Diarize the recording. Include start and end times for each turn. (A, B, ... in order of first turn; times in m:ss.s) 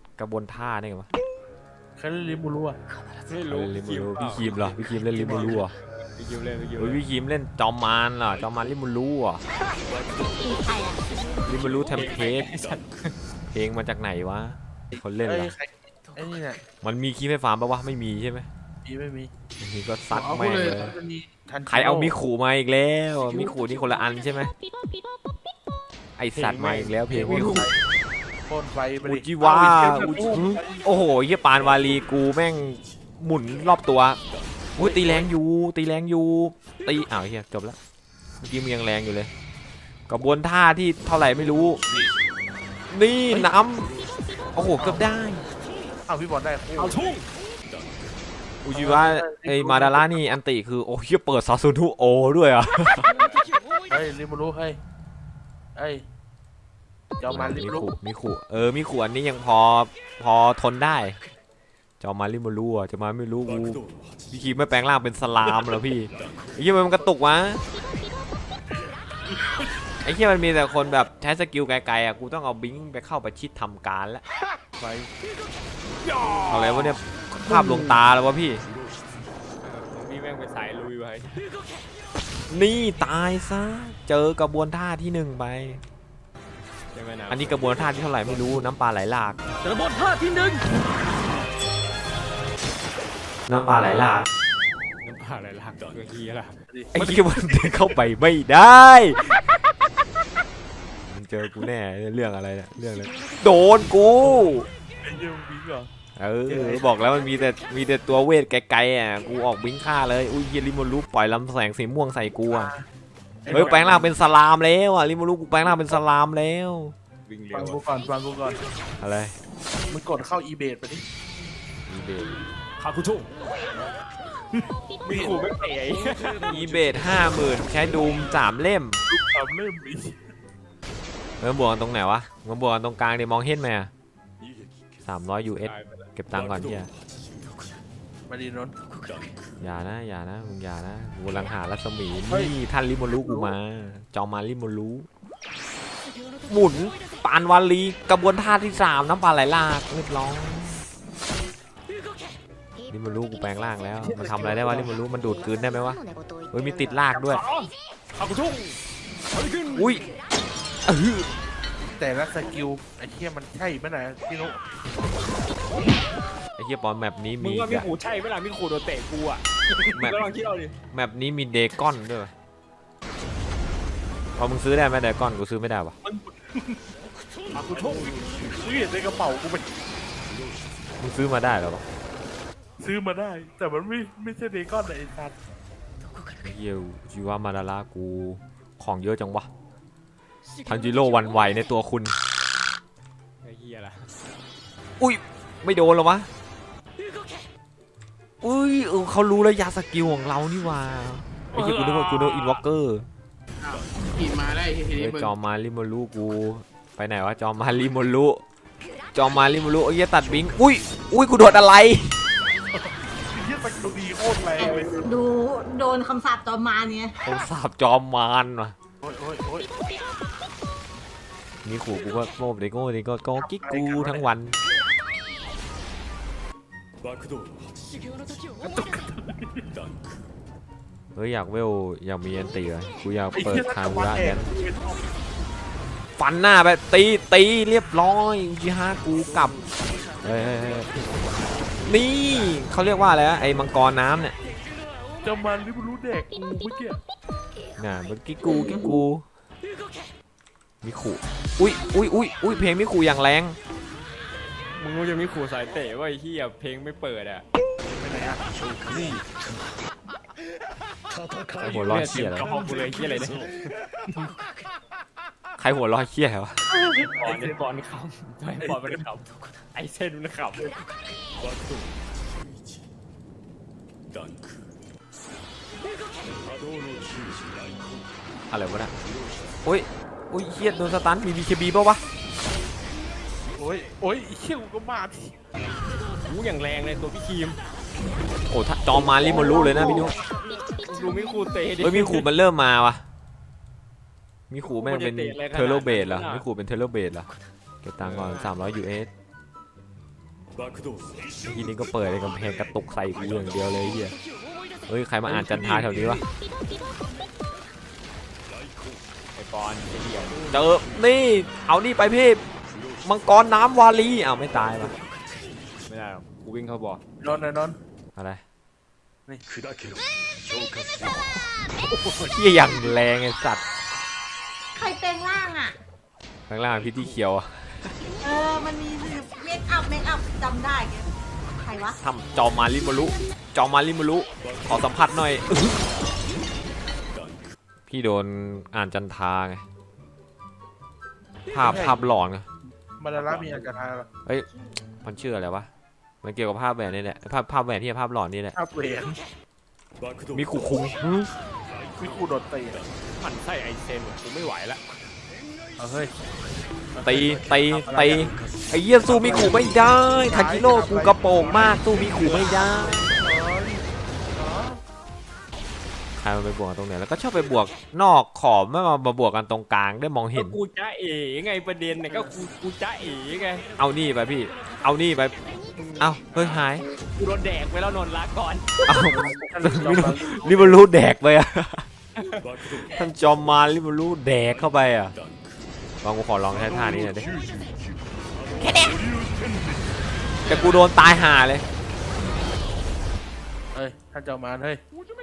0:00.2-0:01.1 A
0:02.0-0:02.8 B
0:03.1-0:04.8 C
0:03.5-0:05.7 A
0:05.0-0:05.6 B
0:05.6-0:07.0 C
0:06.8-0:09.4 A
0:10.3-0:11.0 D
0:11.4-0:12.5 A
0:11.6-0:13.1 C
0:13.5-0:15.5 A
0:14.9-0:16.6 B
0:16.8-0:18.5 A
0:18.8-0:19.3 B
0:19.6-0:21.0 A
0:20.1-0:20.9 E
0:20.7-0:22.1 B
0:21.6-0:24.5 A
0:26.2-0:27.7 A
0:26.3-0:27.7 C
0:27.1-0:27.8 B
0:28.4-0:30.8 B
0:29.0-0:34.2 A
0:34.8-0:37.8 A
0:34.8-0:35.2 C
0:38.4-0:39.3 A
0:40.1-0:41.8 A
0:42.9-0:43.9 A
0:44.5-0:45.4 A
0:44.7-0:45.1 B
0:46.1-0:47.1 B
0:46.8-0:47.2 C
0:48.6-0:53.2 A
0:48.7-0:50.1 B
0:53.9-0:54.8 B
0:55.8-0:56.0 B
0:57.2-0:57.9 B
0:57.3-1:01.2 A
1:02.0-1:07.6 A
1:10.0-1:14.2 A
1:14.8-1:15.1 B
1:16.5-1:18.6 A
1:17.5-1:18.0 B
1:19.6-1:21.5 C
1:22.5-1:25.8 A
1:26.9-1:27.5 C
1:27.3-1:29.4 A
1:29.6-1:30.7 C
1:33.5-1:34.2 A
1:35.0-1:36.6 C
1:36.7-1:37.2 B
1:36.9-1:39.4 A
1:41.0-1:44.6 A
1:45.0-1:45.9 B
1:46.2-1:52.7 A
1:46.5-1:46.9 B
1:52.5-1:52.8 B
1:53.4-1:54.1 B
1:53.5-1:53.9 C
1:53.5-1:56.9 A
1:57.2-1:57.8 C
1:57.5-1:58.6 B
1:59.0-1:59.3 A
1:59.9-2:01.0 B
2:01.9-2:02.4 A
2:02.8-2:03.3 C
2:05.0-2:06.5 C
2:05.1-2:05.4 B
2:06.4-2:09.0 A
2:09.1-2:10.3 B
2:11.4-2:13.9 A
2:15.0-2:16.9 A
2:15.6-2:16.1 C
2:18.3-2:18.7 B
2:19.6-2:25.1 A
2:22.3-2:22.5 B
2:23.1-2:23.5 B
2:26.5-2:30.8 A
2:32.9-2:37.4 A
2:34.0-2:34.9 B
2:37.1-2:38.8 C
2:39.3-2:40.0 C
2:39.7-2:40.0 A
2:40.8-2:41.3 A
2:41.9-2:44.6 B
2:46.6-2:47.9 A
2:47.4-2:50.8 C
2:49.9-2:50.2 A
2:50.9-2:52.3 A
2:54.4-2:56.0 A
2:56.0-2:56.8 B
2:57.5-2:58.5 C
2:58.0-2:59.7 B
3:01.0-3:01.8 A
3:02.8-3:05.3 B
3:06.4-3:09.5 A
3:10.6-3:12.2 A
3:13.4-3:14.1 C
3:15.0-3:16.3 A
3:18.4-3:23.1 A
3:23.6-3:25.3 E
3:24.9-3:28.4 A
3:29.1-3:32.2 A
3:32.8-3:35.1 B
3:34.6-3:37.2 D
3:37.2-3:38.7 A
3:39.0-3:39.7 B
3:41.6-3:44.6 A
3:43.4-3:44.3 B
3:48.6-3:49.7 B
3:51.1-3:54.4 A
3:53.3-3:55.1 B
3:56.2-3:59.6 A
4:00.2-4:00.9 A
4:00.9-4:02.0 C
4:01.8-4:04.4 A
4:05.2-4:07.0 B
4:07.8-4:09.2 A
4:10.8-4:13.6 A
4:14.8-4:17.4 C
4:18.0-4:19.2 B
4:21.6-4:22.5 A
4:21.8-4:23.5 C
4:25.6-4:26.6 A
4:26.8-4:31.0 C
4:27.2-4:27.5 B
4:38.5-4:38.9 A
4:39.6-4:42.0 A
4:43.6-4:45.4 B
4:46.2-4:47.6 C
4:48.5-4:50.2 A
4:49.2-4:50.1 D
4:50.8-4:52.3 C
4:51.8-4:53.0 A
4:54.5-4:57.3 A
4:54.6-4:56.5 C
4:57.8-4:59.1 A
4:58.0-4:58.5 C
5:01.4-5:04.2 A
5:04.9-5:06.2 A
5:05.2-5:06.2 B
5:09.3-5:10.5 C
5:10.5-5:12.4 A
5:13.0-5:15.0 A
5:15.8-5:17.0 C
5:17.2-5:17.8 B
5:18.2-5:18.4 A
5:22.2-5:23.6 A
5:24.7-5:25.8 D
5:26.5-5:28.0 A
5:28.2-5:32.0 D
5:32.0-5:35.9 A
5:37.9-5:39.6 A
5:41.5-5:42.5 A
5:41.6-5:42.1 B
5:43.0-5:44.1 B
5:45.0-5:45.7 A
5:46.2-5:48.5 A
5:48.5-5:49.2 B
5:50.3-5:51.3 A
5:52.0-5:52.8 B
5:53.2-5:54.9 C
5:55.8-5:56.1 B
5:56.9-5:58.4 B
5:57.0-6:03.1 A
5:59.0-6:04.8 B
6:06.2-6:10.6 A
6:10.3-6:13.6 C
6:13.8-6:15.4 A
6:15.8-6:18.7 C
6:16.0-6:16.8 A
6:18.8-6:21.9 A
6:18.9-6:20.8 B
6:22.7-6:25.2 A
6:26.0-6:27.3 A
6:28.6-6:29.0 D
6:30.4-6:31.6 A
6:33.7-6:34.8 B